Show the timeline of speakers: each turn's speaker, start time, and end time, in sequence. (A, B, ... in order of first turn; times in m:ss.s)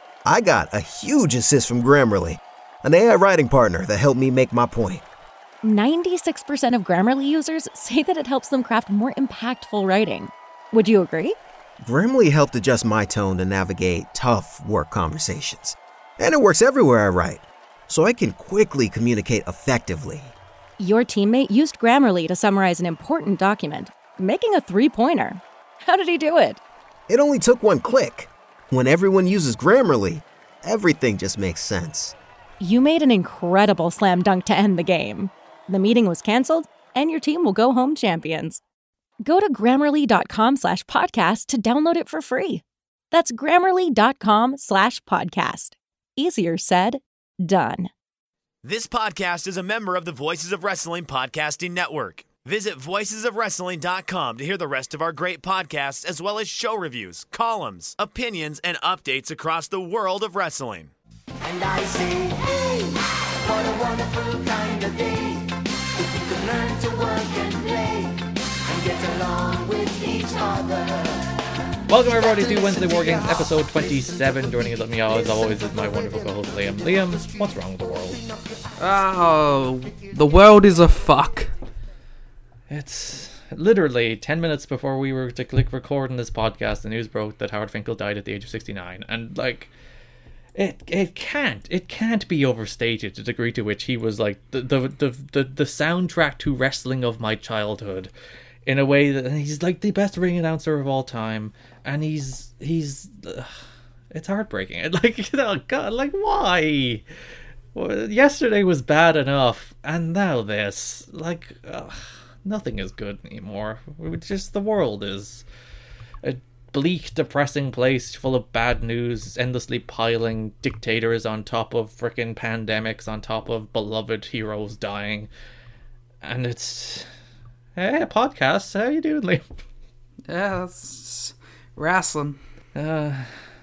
0:00.2-0:05.0 A
0:05.6-0:11.4 B
0:11.8-0:20.3 A
0:20.8-0:26.6 B
0:27.1-0:32.1 A
0:32.6-0:38.6 B
0:39.2-0:47.9 B
0:48.6-1:00.9 C
1:01.4-1:11.3 D
1:11.9-1:18.2 E
1:18.8-1:21.5 F
1:22.7-1:29.7 E
1:30.6-1:38.1 E
1:38.7-1:43.5 E
1:44.1-1:47.0 E
1:47.8-1:55.4 E
1:56.2-2:05.3 E
2:06.2-2:07.1 E
2:07.8-2:09.4 E
2:10.3-2:12.4 F
2:12.8-2:13.3 E